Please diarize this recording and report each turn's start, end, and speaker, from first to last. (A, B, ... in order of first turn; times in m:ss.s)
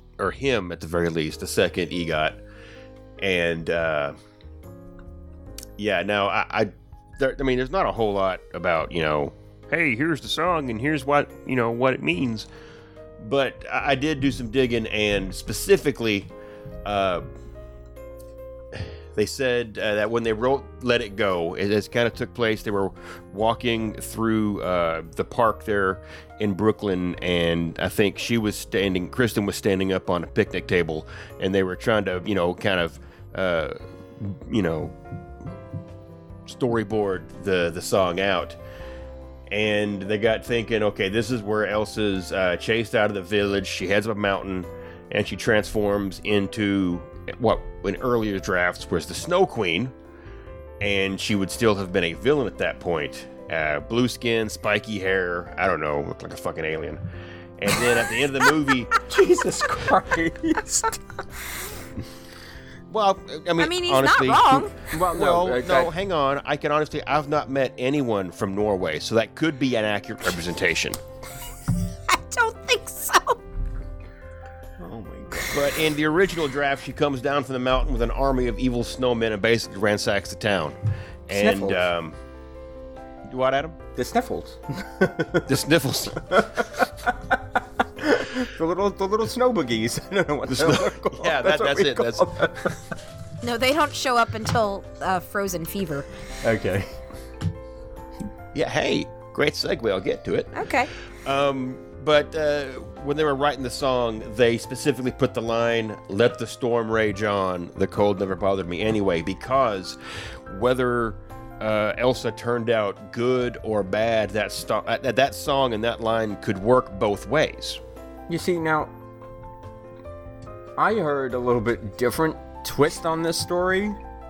0:00.2-0:02.4 A
0:03.2-0:04.1 A
0:05.8-0:12.5 A
0:13.2-0:16.3 A
0:16.8-0:17.2 A
0:18.7-0:34.9 A
0:36.5-0:38.6 A
0:39.5-0:49.9 A
0:50.8-0:57.0 A
0:57.6-0:59.0 A
0:59.0-1:01.0 B
1:02.9-1:11.0 A
1:03.6-1:04.7 C
1:04.7-1:05.9 B
1:12.1-1:13.4 C
1:14.8-1:20.8 A
1:21.3-1:22.2 A
1:21.3-1:21.8 B
1:23.3-1:23.8 A
1:23.9-1:25.5 B
1:25.4-1:26.7 A
1:26.3-1:32.8 B
1:30.5-1:32.4 A
1:33.4-1:36.1 C
1:36.4-1:36.9 B
1:38.5-1:40.5 A
1:40.5-1:40.9 C
1:41.2-1:50.0 A
1:50.5-1:57.8 A
1:58.3-1:58.9 B
2:00.8-2:04.0 B